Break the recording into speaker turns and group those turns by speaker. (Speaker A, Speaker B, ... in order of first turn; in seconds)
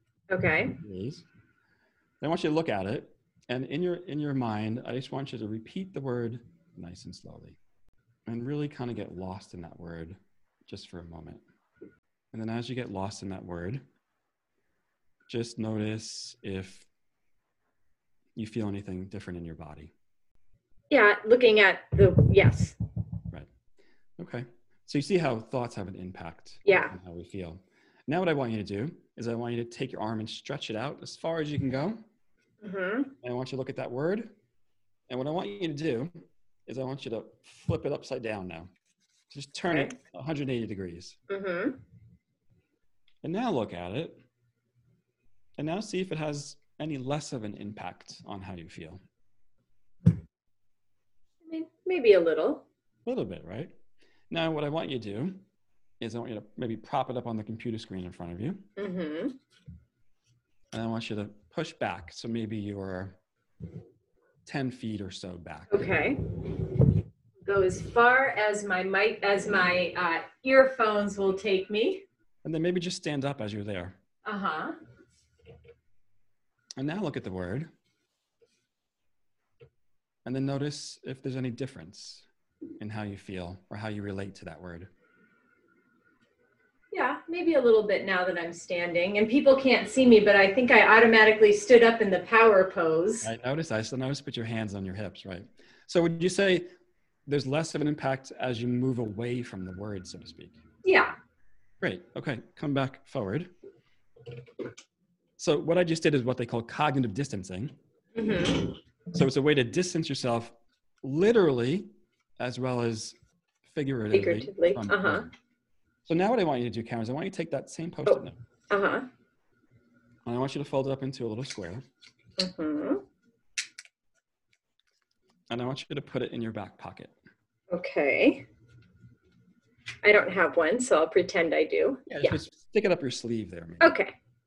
Speaker A: 0.3-0.8, 20.9-22.8, 26.7-27.0, 32.6-33.1, 39.7-40.0, 41.3-41.8, 51.5-52.6, 58.8-59.4, 65.7-66.6, 67.5-72.0, 74.2-74.8, 86.9-93.3, 100.8-101.2, 108.2-108.8, 114.1-115.3, 118.1-119.1, 122.4-123.0, 127.7-128.5, 130.0-132.4, 133.8-134.1
Speaker B: 0.8-1.3, 2.2-7.6, 8.3-11.4, 12.3-13.8, 15.3-16.9, 18.4-19.9, 24.2-32.0, 33.2-34.3, 35.1-36.1, 36.7-38.7, 39.3-41.2, 43.2-44.2, 45.6-49.0, 53.1-53.8, 54.3-55.4, 56.0-58.7, 60.7-63.2, 64.5-65.9, 72.4-74.0, 76.8-77.7, 80.2-82.3, 82.8-84.9, 93.2-96.7, 97.3-100.6, 101.8-103.5, 105.4-107.8, 109.1-115.3, 116.1-118.4, 120.2-121.8, 125.5-127.2, 132.1-134.0